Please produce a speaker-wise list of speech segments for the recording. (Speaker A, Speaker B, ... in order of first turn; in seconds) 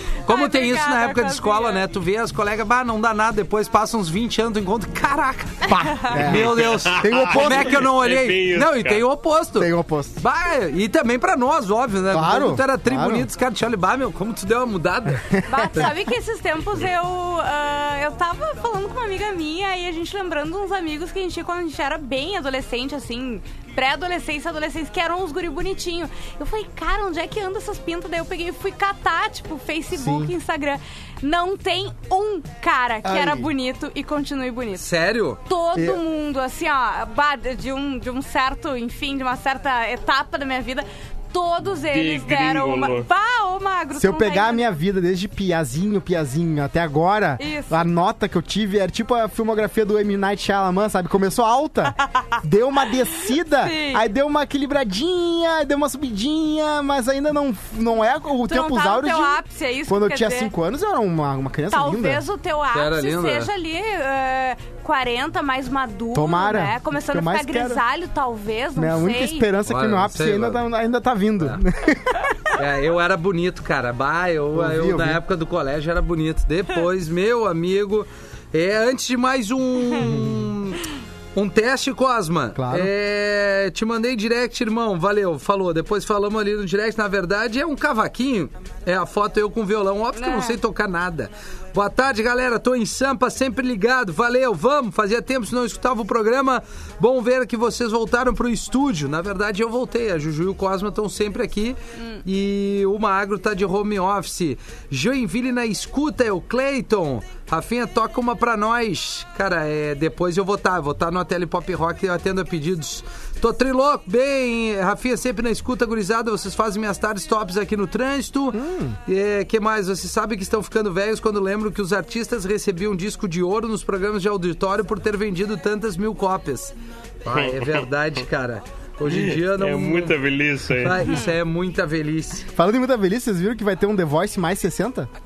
Speaker A: 0.2-1.8, 15.5-34.9, 35.5-44.7, 47.4-47.8, 53.6-54.0, 58.5-60.5, 61.7-69.5, 90.2-90.6, 102.0-102.2, 131.0-131.3
Speaker B: 0.3-15.4, 34.8-35.4, 62.7-63.5, 69.7-70.7, 72.5-80.8, 81.3-126.7, 127.2-130.2, 130.8-132.5
Speaker C: 5.7-7.9, 9.6-10.2, 12.1-13.3, 15.2-15.9, 29.9-30.3, 33.0-33.5, 35.7-36.0, 44.0-62.2, 66.1-67.8, 68.8-72.3, 74.5-75.2, 80.0-80.5, 82.6-82.9, 118.5-119.0, 132.5-135.1
Speaker D: 6.2-9.1, 41.9-43.1, 127.3-127.8, 129.1-131.1